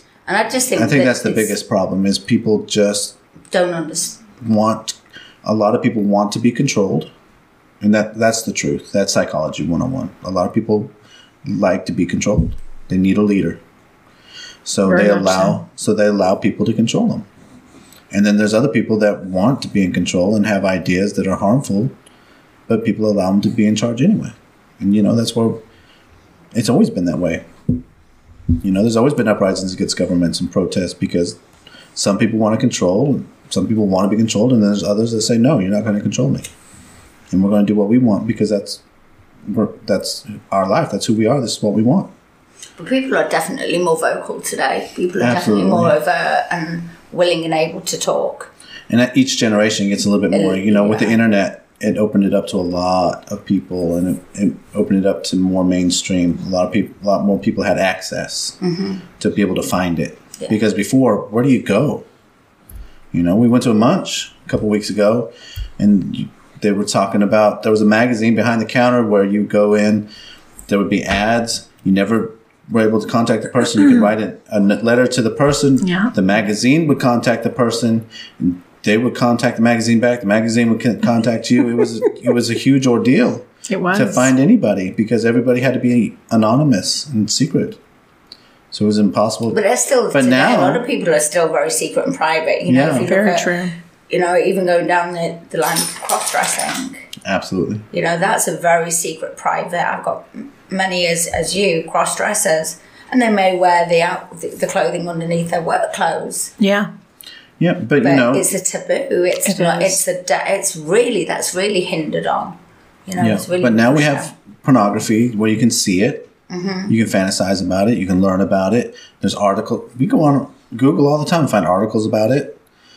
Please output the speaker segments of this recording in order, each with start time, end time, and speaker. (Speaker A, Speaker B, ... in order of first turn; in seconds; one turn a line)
Speaker A: 0.3-1.6
Speaker B: 0.8-3.1
Speaker A: 3.5-4.2
Speaker B: 4.4-7.1
Speaker B: 7.8-10.9
Speaker B: 11.4-13.6
Speaker B: 14.7-17.3
Speaker C: 14.8-15.6
Speaker B: 18.1-21.9
Speaker B: 22.7-25.6
Speaker B: 26.5-27.5
Speaker B: 28.6-31.4
Speaker B: 31.9-36.5
Speaker B: 37.3-38.8
Speaker B: 39.5-42.1
Speaker A: 42.8-48.5
Speaker B: 45.2-46.0
Speaker B: 48.9-58.6
Speaker A: 50.3-51.2
Speaker A: 58.6-59.0
Speaker B: 59.2-62.1
Speaker B: 63.1-70.1
Speaker B: 70.7-87.8
Speaker C: 75.8-76.1
Speaker C: 83.7-84.3
Speaker B: 88.7-89.6
Speaker A: 89.5-93.5
Speaker B: 90.1-90.8
Speaker B: 92.7-93.1
Speaker C: 93.0-93.8
Speaker A: 94.1-97.0
Speaker B: 97.2-97.8
Speaker A: 97.9-106.5
Speaker C: 106.6-106.9
Speaker B: 107.6-108.5
Speaker A: 108.0-114.3
Speaker C: 109.5-110.0
Speaker B: 113.2-116.3
Speaker A: 116.5-116.9
Speaker B: 116.9-122.6